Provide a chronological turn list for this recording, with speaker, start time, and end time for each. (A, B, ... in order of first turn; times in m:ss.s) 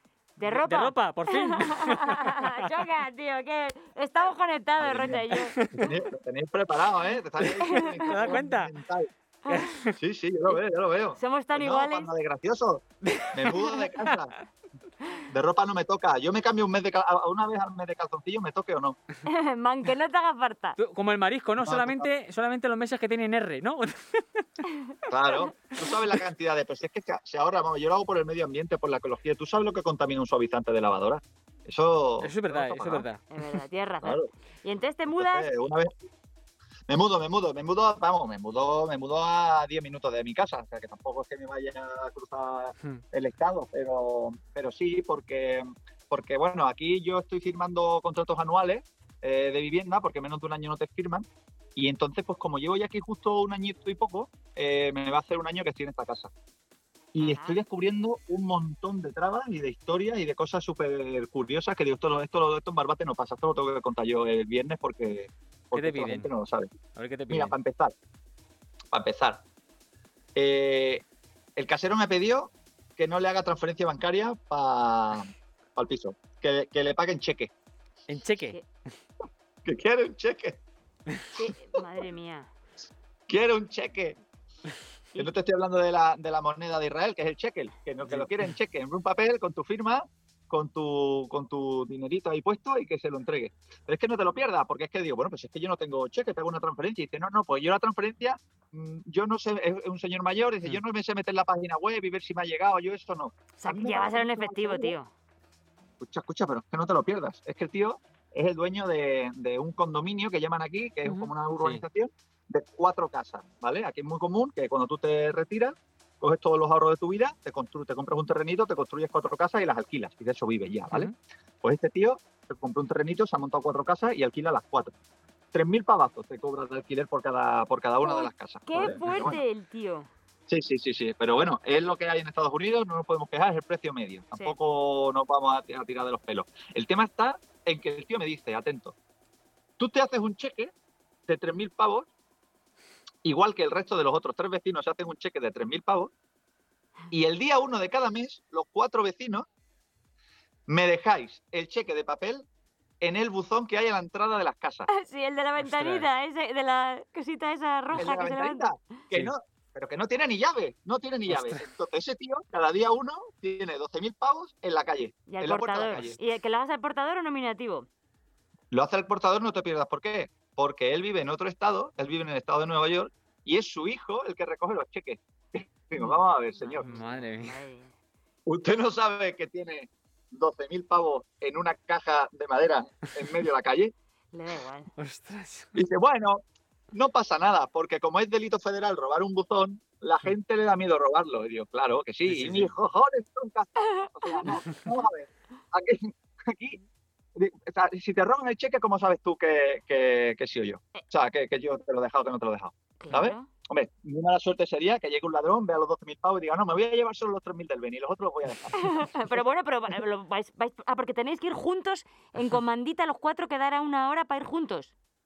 0:00.4-0:05.6 A
0:00.4-0:02.5 B
0:04.8-0:05.2 C
0:05.4-0:05.9 B
0:05.7-0:09.1 C
0:07.4-0:08.7 B
0:07.5-0:08.4 A
0:09.4-0:09.7 A
0:09.5-0:10.0 B
0:10.0-0:14.3 C
0:11.2-0:12.1 A
0:13.0-0:14.2 B
0:15.3-0:19.0 C
0:19.3-0:20.8 A
0:20.8-0:24.2 B
0:21.6-0:22.0 C
0:25.1-0:33.0 C
0:32.2-0:33.2 B
0:33.3-0:35.5 A
0:35.1-0:35.9 C
0:36.9-0:56.3 C
0:57.1-1:06.7 C
0:57.2-0:57.6 A
1:05.7-1:06.3 B
1:06.9-1:07.6 B
1:07.3-1:07.9 C
1:08.9-1:09.4 C
1:10.3-1:11.0 C
1:11.6-1:17.5 C
1:18.1-1:18.6 B
1:19.6-1:20.6 C
1:21.3-1:22.5 A
1:23.3-1:24.2 C
1:25.2-1:45.0 C
1:28.0-1:28.6 B
1:43.6-1:45.1 A
1:46.0-2:01.1 C
1:51.0-1:51.8 B
2:01.6-2:04.9 C
2:05.5-2:09.4 C
2:08.0-2:10.1 A
2:10.5-2:18.9 C
2:19.8-2:20.7 C
2:21.3-2:22.1 C
2:23.2-2:26.1 C
2:27.1-2:29.4 C
2:30.7-2:32.4 C
2:33.0-2:34.9 C
2:34.9-2:38.7 A
2:35.6-2:36.1 B
2:37.9-2:46.2 C
2:41.3-2:41.7 B
2:45.3-2:47.9 A
2:48.7-2:56.9 C
2:56.0-2:57.9 A
2:56.8-2:57.6 B
2:58.5-3:03.9 C
3:04.3-3:04.9 A
3:05.0-3:05.7 B
3:05.8-3:16.8 C
3:12.2-3:12.8 B
3:13.8-3:14.6 A
3:14.5-3:14.8 B
3:17.4-3:28.7 C
3:23.0-3:23.5 A
3:28.7-3:34.9 A